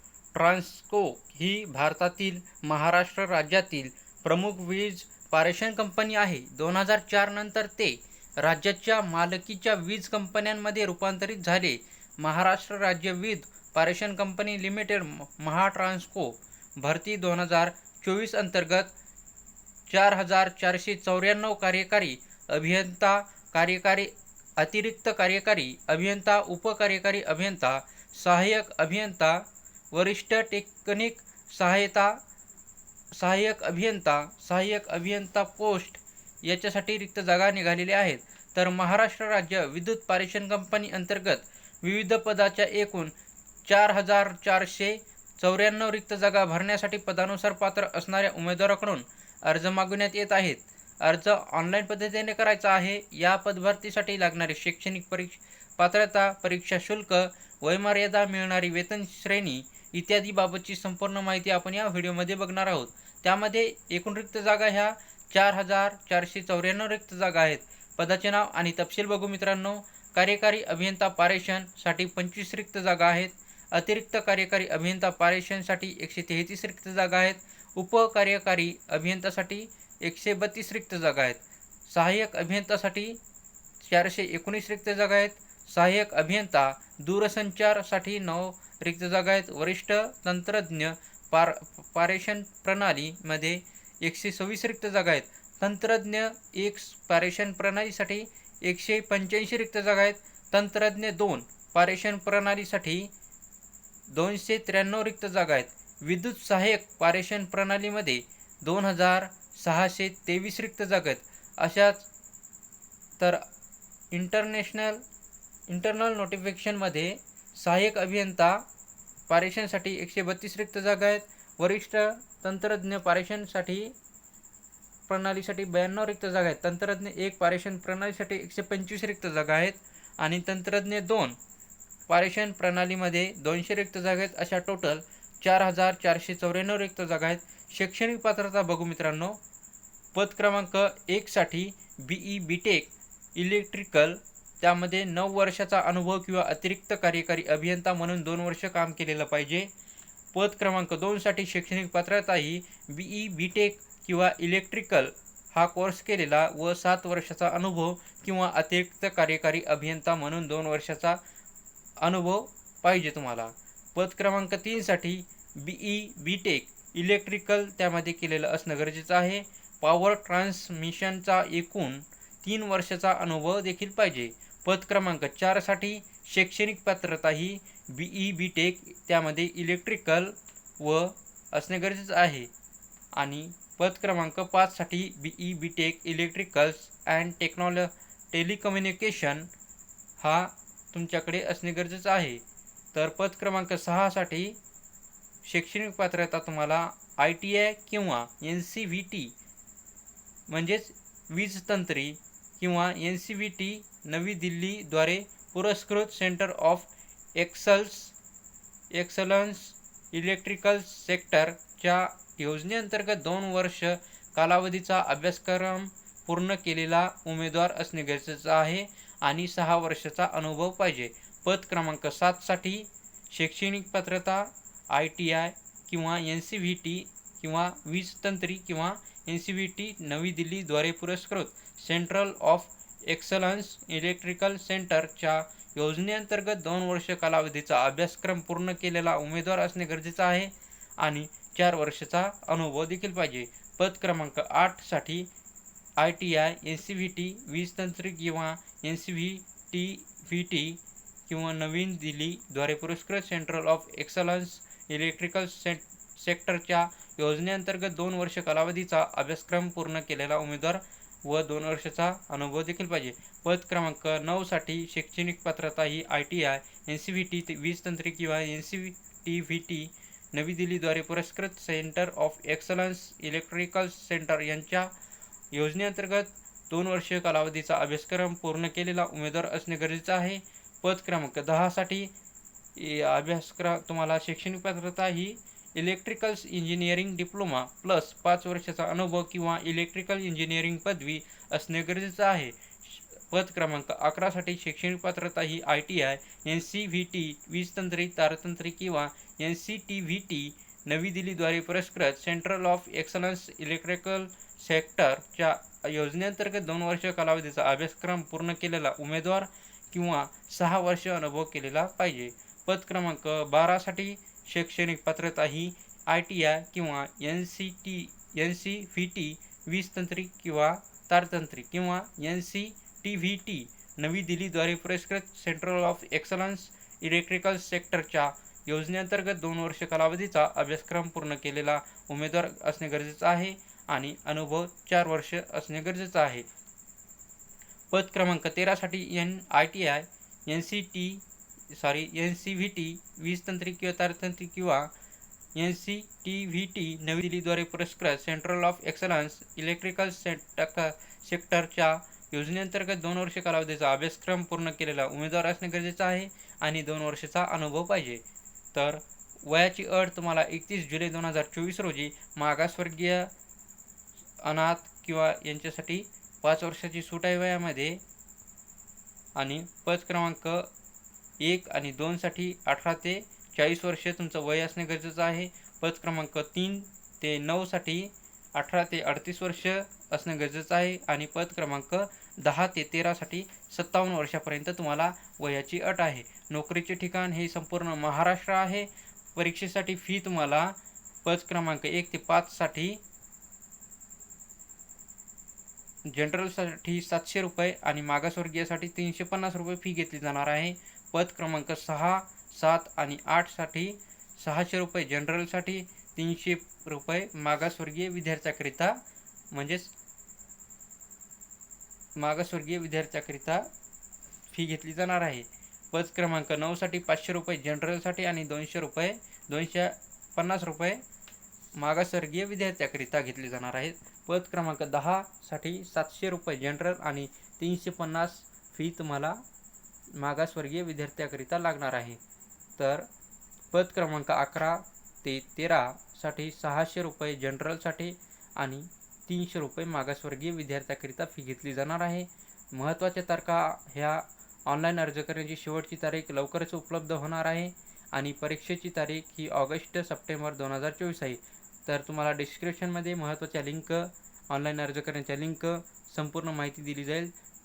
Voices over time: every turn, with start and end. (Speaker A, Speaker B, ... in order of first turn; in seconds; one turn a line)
Speaker A: 0.3-18.9
Speaker A: 19.9-32.2
Speaker A: 33.1-43.1
Speaker A: 43.6-83.2
Speaker A: 83.8-103.1
Speaker A: 104.1-112.1
Speaker A: 113.2-113.4
Speaker A: 114.1-115.0
Speaker A: 115.7-118.6
Speaker A: 119.3-123.9
Speaker A: 125.1-131.4
Speaker A: 132.1-139.4
Speaker A: 140.1-149.7
Speaker A: 150.3-161.2
Speaker A: 162.0-182.5
Speaker A: 183.1-189.5
Speaker A: 190.2-192.4
Speaker A: 192.9-194.6
Speaker A: 195.4-199.3
Speaker A: 200.5-208.2
Speaker A: 208.9-245.3
Speaker A: 246.0-274.9
Speaker A: 275.5-282.1
Speaker A: 282.8-336.4
Speaker A: 337.9-344.9
Speaker A: 345.5-358.2
Speaker A: 358.7-363.3
Speaker A: 364.4-368.0
Speaker A: 369.4-370.7
Speaker A: 371.4-393.0
Speaker A: 396.1-409.9
Speaker A: 412.1-413.7
Speaker A: 414.5-421.0
Speaker A: 421.8-429.4
Speaker A: 430.1-432.2
Speaker A: 432.8-433.1
Speaker A: 433.7-457.3